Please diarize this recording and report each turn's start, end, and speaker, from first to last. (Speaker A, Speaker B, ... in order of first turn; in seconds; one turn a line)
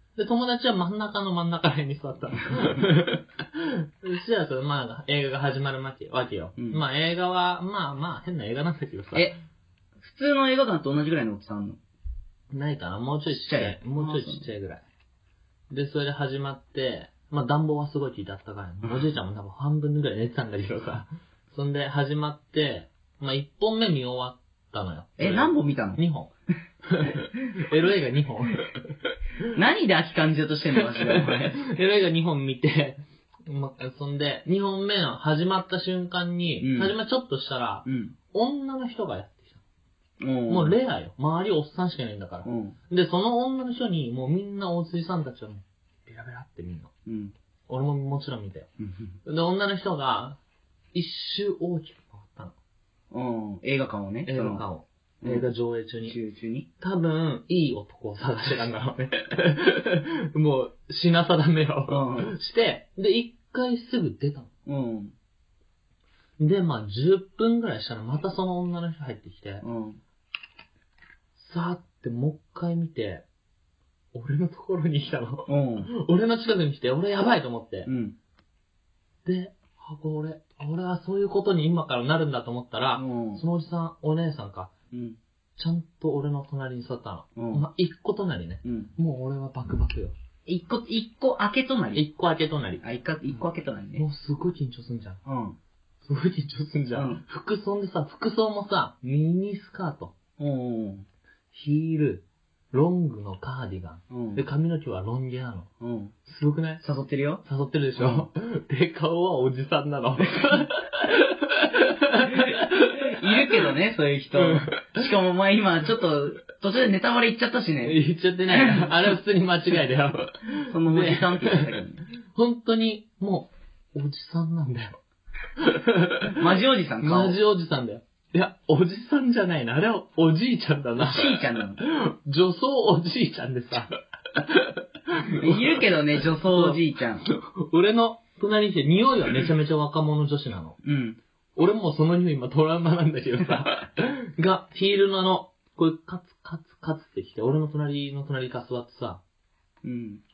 Speaker A: 0.1-9.3
Speaker B: 2.5-2.8
Speaker B: 10.0-11.8
Speaker A: 12.5-14.8
Speaker B: 13.3-14.5
Speaker A: 15.7-26.3
Speaker B: 25.2-26.0
Speaker A: 26.8-29.1
Speaker B: 29.5-31.6
Speaker A: 30.9-39.6
Speaker B: 36.6-36.9
Speaker B: 37.8-38.1
Speaker B: 40.2-40.8
Speaker A: 40.5-46.9
Speaker B: 42.4-42.8
Speaker B: 47.0-47.3
Speaker A: 47.7-48.7
Speaker B: 48.8-49.2
Speaker A: 49.2-50.4
Speaker A: 50.9-52.5
Speaker B: 53.1-54.6
Speaker A: 54.2-56.1
Speaker B: 55.2-55.5
Speaker B: 56.0-56.7
Speaker A: 56.8-64.5
Speaker B: 61.9-62.3
Speaker B: 64.7-65.1
Speaker A: 66.4-69.6
Speaker B: 69.6-70.0
Speaker A: 71.3-73.2
Speaker A: 74.1-77.9
Speaker B: 75.5-75.9
Speaker B: 77.8-78.2
Speaker A: 79.2-84.7
Speaker B: 83.0-83.4
Speaker B: 84.9-85.2
Speaker A: 85.6-90.1
Speaker B: 87.3-87.7
Speaker B: 88.6-88.9
Speaker B: 90.5-92.0
Speaker A: 91.9-92.8
Speaker B: 92.8-94.0
Speaker A: 94.0-95.2
Speaker B: 95.2-95.6
Speaker A: 96.0-100.1
Speaker B: 96.9-97.2
Speaker B: 100.4-101.0
Speaker A: 101.5-105.7
Speaker B: 104.1-104.4
Speaker B: 105.8-106.1
Speaker A: 106.2-106.8
Speaker B: 106.8-107.4
Speaker A: 107.4-113.7
Speaker B: 108.0-108.3
Speaker B: 112.3-118.0
Speaker A: 114.3-115.1
Speaker A: 117.8-121.7
Speaker B: 118.5-119.1
Speaker B: 120.6-122.0
Speaker A: 122.3-125.0
Speaker A: 125.6-126.5
Speaker B: 126.3-127.4
Speaker A: 127.0-140.8
Speaker B: 131.0-131.8
Speaker B: 135.3-137.3
Speaker B: 140.8-141.2
Speaker A: 141.6-149.2
Speaker B: 149.8-150.2